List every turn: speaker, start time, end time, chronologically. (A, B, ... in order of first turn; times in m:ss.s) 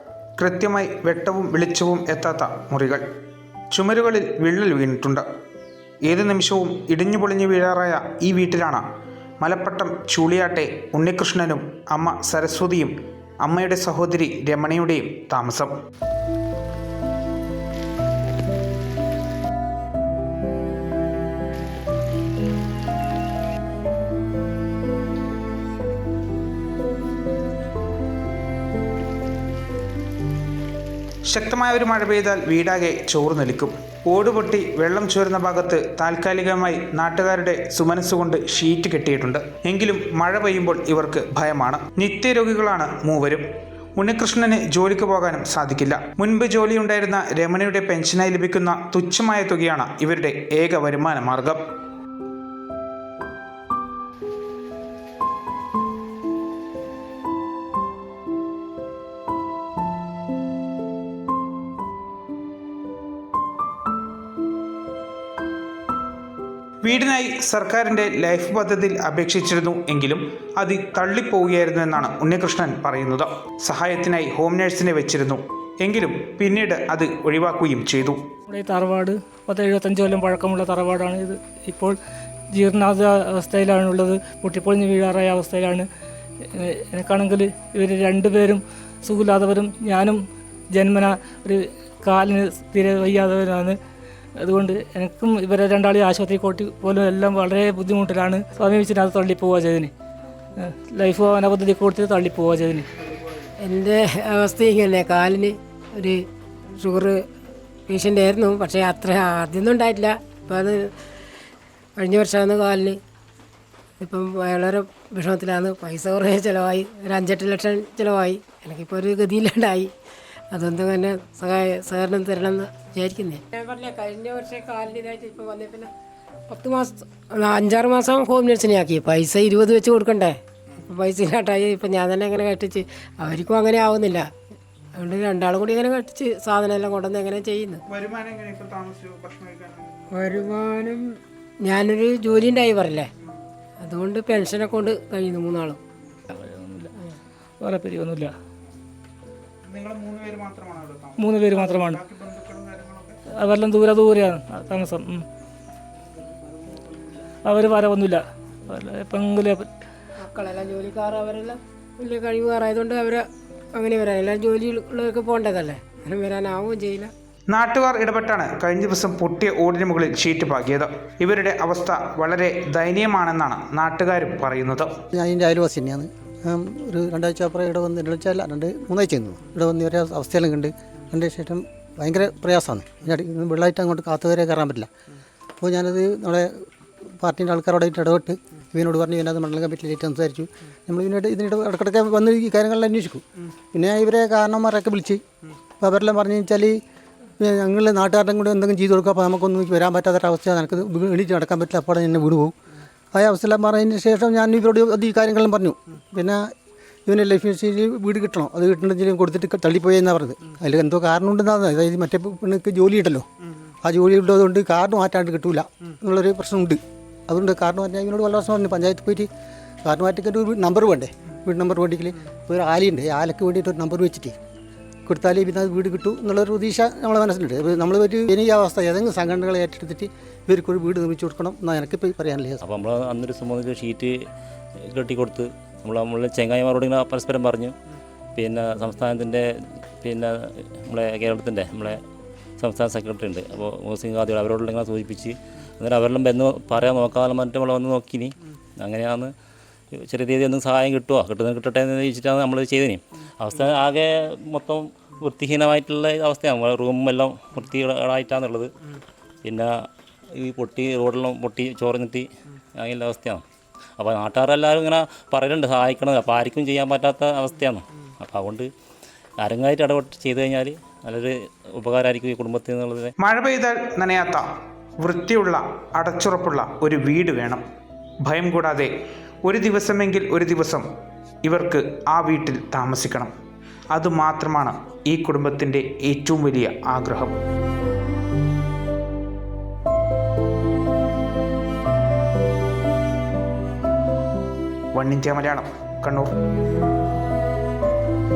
0:00.4-0:03.0 A
0:03.7-0:05.2 A
0:06.1-0:08.8 A
0:09.4-0:15.8 A
0:31.3-0:43.5 A
0:44.0-0:51.6 A
1:06.8-1:18.2 A
1:18.5-1:22.0 B
1:22.5-1:25.9 B
1:26.5-1:30.2 B
1:30.7-1:33.8 B
1:34.4-1:39.9 B
1:40.6-1:42.9 B
1:43.6-1:47.2 C
1:47.9-1:50.9 C
1:52.0-1:53.0 C
1:54.0-1:59.9 C
2:00.5-2:05.9 C
2:06.5-2:14.3 C
2:15.0-2:17.8 C
2:17.9-2:20.0 A
2:20.1-2:23.1 C
2:23.8-2:25.8 C
2:26.3-2:26.9 B
2:27.6-2:28.3 B
2:29.7-2:33.2 A
2:31.2-2:32.0 B
2:33.3-2:35.3 B
2:37.4-2:39.7 B
2:40.2-2:47.1 C
2:47.5-2:54.9 A
2:55.1-3:04.9 D
3:05.6-3:06.7 D
3:07.2-3:15.2 D
3:15.8-3:16.8 D
3:17.4-3:22.5 D
3:23.1-3:26.4 D
3:27.1-3:33.3 D
3:33.8-3:39.3 D
3:39.8-3:44.3 D
3:45.1-3:52.6 D
3:52.6-3:54.2 E
3:54.9-3:57.8 E
3:58.4-4:02.0 E
4:02.6-4:09.3 E
4:09.9-4:18.7 E
4:19.4-4:19.7 E
4:20.3-4:23.4 E
4:24.0-4:28.7 E
4:29.4-4:33.1 E
4:33.2-4:34.5 A
4:35.0-4:37.6 A
4:38.2-4:38.9 A
4:39.4-4:40.9 A
4:41.4-4:43.3 A
4:43.9-4:47.4 A
4:55.0-4:56.3 A